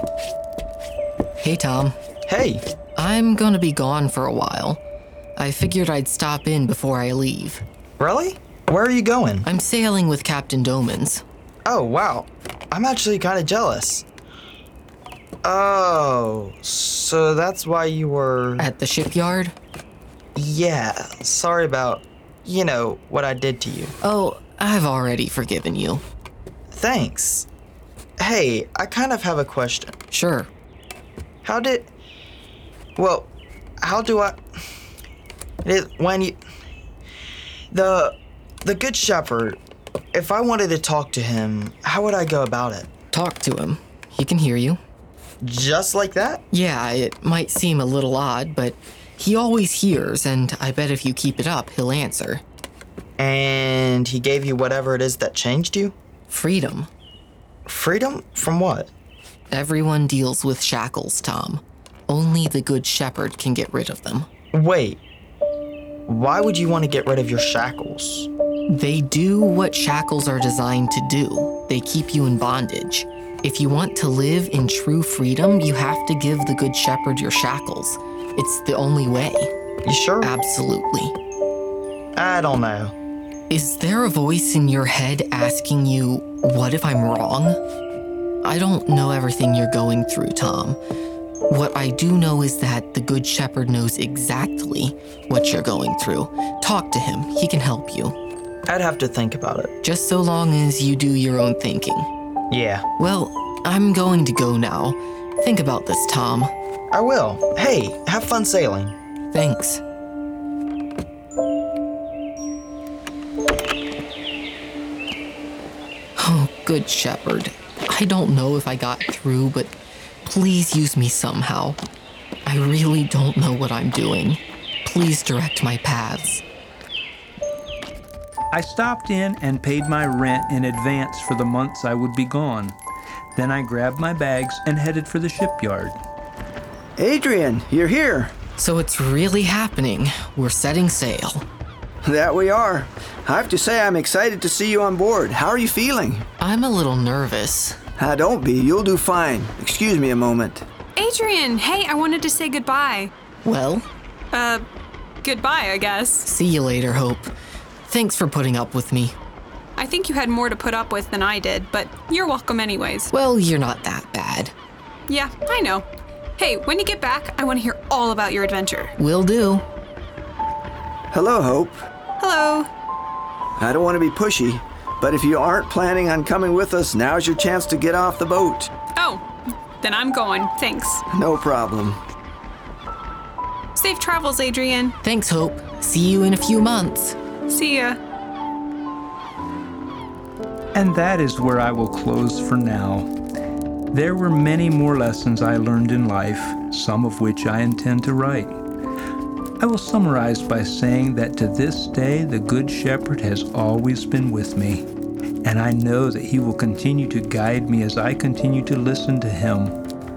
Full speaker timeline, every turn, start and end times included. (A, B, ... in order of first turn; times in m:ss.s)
0:01.4-0:01.9 A
0:02.3-0:02.6 B
0:03.0-0:04.8 A
0:05.4-0:07.6 A
0:08.0-0:09.5 B
0:09.4-0:11.2 A
0:11.6-0:14.0 B
0:15.4-0:18.7 B
0:18.6-0:19.5 A
0:20.4-0:23.9 B
0:24.0-0:26.0 A
0:26.7-0:27.5 B
0:28.2-0:29.9 B
0:30.1-0:30.5 A
0:31.4-0:31.9 B
0:33.0-0:33.3 B
0:33.8-0:34.4 B
0:35.6-0:36.4 B
0:37.7-0:39.6 B
0:40.1-0:42.9 B
0:43.1-0:44.8 A
0:45.4-0:46.4 B
0:46.5-0:52.4 A
0:53.2-0:55.9 B
0:56.3-0:56.9 A
0:57.6-0:58.9 B
0:59.5-1:04.3 A
1:04.5-1:05.0 B
1:06.1-1:08.3 B
1:08.7-1:19.5 A
1:19.8-1:20.3 B
1:20.2-1:21.1 A
1:22.2-1:22.9 B
1:23.5-1:27.6 A
1:28.4-1:30.8 A
1:31.5-1:38.2 A
1:38.7-1:39.7 B
1:39.8-1:42.1 A
1:42.5-1:42.8 B
1:43.0-1:46.5 A
1:46.9-1:48.9 B
1:49.3-1:49.8 A
1:56.2-1:59.7 A
2:00.2-2:01.8 A
2:02.4-2:06.4 A
2:08.5-2:12.8 C
2:13.3-2:16.0 C
2:17.0-2:18.3 D
2:18.6-2:21.4 A
2:22.0-2:26.2 D
2:26.4-2:27.8 A
2:28.0-2:30.6 D
2:31.0-2:33.1 E
2:33.4-2:33.9 A
2:34.3-2:34.6 E
2:35.2-2:36.2 E
2:36.2-2:37.3 A
2:37.8-2:39.2 A
2:39.8-2:43.1 E
2:43.1-2:44.5 A
2:45.1-2:45.8 E
2:46.4-2:48.9 E
2:49.0-2:49.6 A
2:51.1-2:51.8 D
2:52.2-2:52.7 E
2:53.6-2:58.7 D
2:59.0-2:59.2 E
2:59.8-3:01.0 E
3:01.1-3:02.0 D
3:03.8-3:04.9 E
3:05.0-3:07.2 A
3:07.5-3:08.0 E
3:10.7-3:13.1 C
3:13.9-3:18.6 C
3:19.6-3:24.9 C
3:25.4-3:29.8 C